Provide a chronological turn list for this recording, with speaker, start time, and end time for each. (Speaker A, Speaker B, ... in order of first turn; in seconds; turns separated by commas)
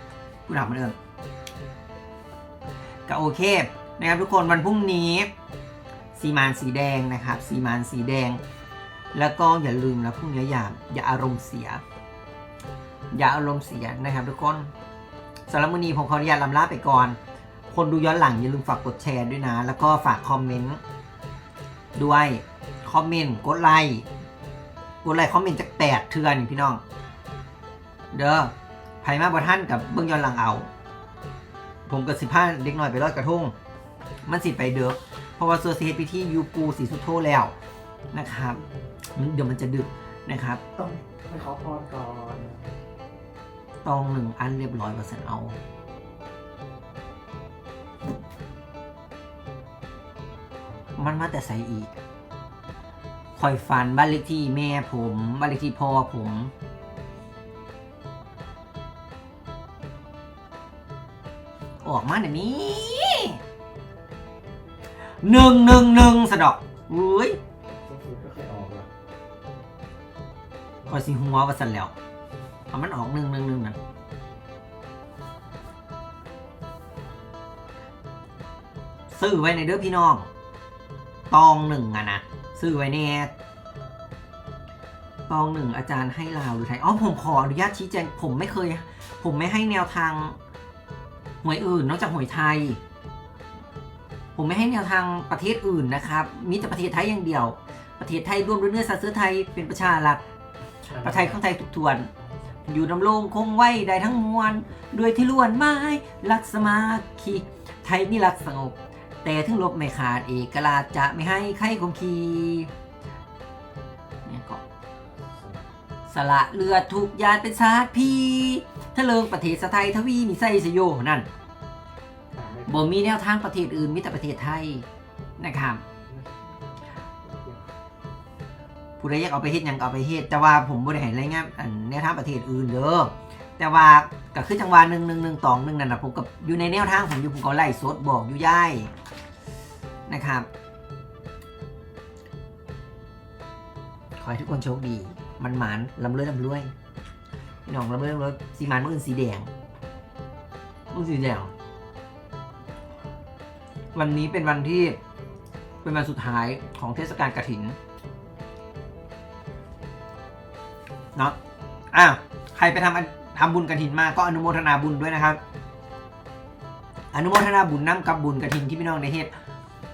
Speaker A: 0.5-0.9, Speaker A: 3.1-5.3, Speaker A: 6.2-8.4, Speaker A: 9.1-11.8, Speaker A: 13.1-14.7, Speaker A: 15.5-17.2, Speaker A: 17.7-20.8, Speaker A: 21.9-24.1, Speaker A: 25.0-26.8, Speaker A: 28.1-28.5, Speaker A: 29.0-30.7, Speaker A: 31.9-33.5, Speaker A: 34.2-37.5, Speaker A: 38.1-38.6, Speaker B: 38.5-38.9, Speaker A: 39.1-40.6, Speaker B: 40.7-42.8, Speaker A: 43.8-45.6, Speaker B: 50.6-51.2, Speaker A: 51.0-51.9, Speaker A: 53.4-56.5, Speaker A: 61.8-63.4, Speaker A: 65.2-67.4, Speaker B: 67.7-68.9, Speaker A: 70.9-71.9, Speaker A: 72.7-73.8, Speaker A: 79.1-80.3, Speaker A: 81.3-83.3, Speaker A: 85.3-90.4, Speaker A: 91.4-92.8, Speaker A: 94.3-100.2, Speaker B: 100.8-101.4, Speaker A: 101.0-102.1, Speaker B: 102.2-102.6, Speaker A: 102.7-112.7, Speaker A: 114.2-114.6, Speaker B: 115.3-115.7, Speaker A: 116.1-121.3, Speaker B: 122.3-123.0, Speaker A: 122.7-124.8, Speaker A: 125.4-125.8, Speaker B: 126.0-127.7, Speaker A: 129.0-138.9, Speaker A: 140.1-140.5, Speaker A: 144.2-146.7, Speaker A: 147.7-149.5, Speaker A: 150.9-151.5, Speaker A: 153.9-155.0, Speaker A: 155.8-157.8, Speaker A: 161.9-165.4, Speaker A: 167.1-169.3